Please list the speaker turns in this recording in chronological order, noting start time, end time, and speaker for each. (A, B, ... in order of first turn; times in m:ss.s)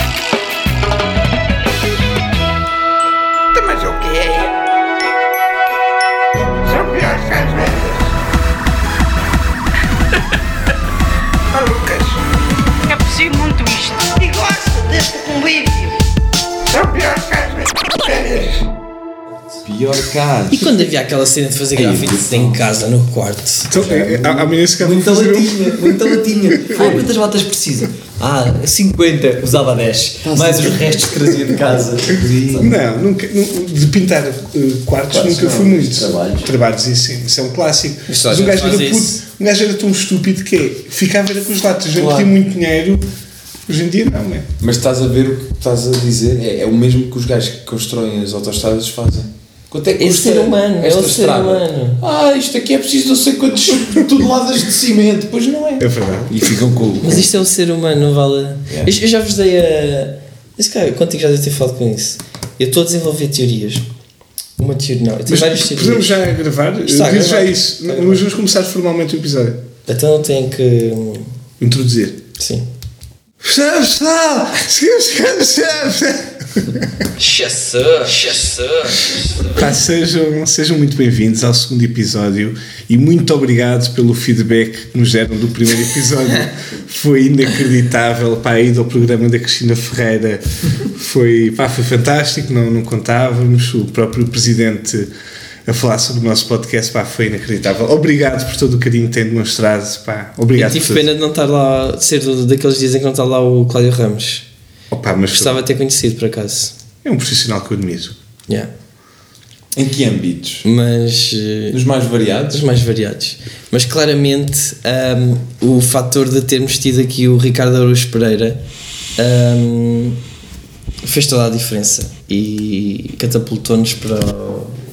0:03.5-0:04.5 A
0:06.6-0:08.1 A
0:11.5-0:12.2 A
0:12.9-0:16.0 A
0:16.7-0:18.7 A
0:19.6-0:20.8 B
0:20.5-0:23.7 C
0:21.7-0:22.6 B
0:23.7-0:27.0 D
0:23.7-0:24.3 B
0:23.8-0:32.8 E
0:26.8-0:27.0 B
0:30.2-0:31.3 B
0:32.0-0:32.7 B
0:32.5-0:43.0 D
0:35.1-0:36.5 E
0:38.1-0:39.2 C
0:43.7-0:44.5 D
0:44.6-0:57.3 B
0:50.0-0:52.0 C
0:55.8-0:56.4 D
0:57.0-1:03.8 C
1:04.6-1:06.2 C
1:05.3-1:09.6 D
1:06.9-1:08.2 C
1:09.9-1:11.3 C
1:11.6-1:12.2 D
1:12.4-1:12.6 C
1:13.4-1:16.9 D
1:17.2-1:19.5 C
1:19.5-1:35.1 D
1:35.6-1:41.1 D
1:40.5-1:44.4 C
1:44.9-1:45.6 D
1:45.3-1:46.7 C
1:47.0-1:48.2 D
1:49.7-1:50.6 B
1:50.6-1:51.8 C
1:51.7-1:52.6 B
1:52.5-1:58.6 C
1:59.2-2:00.2 C
2:01.0-2:04.8 C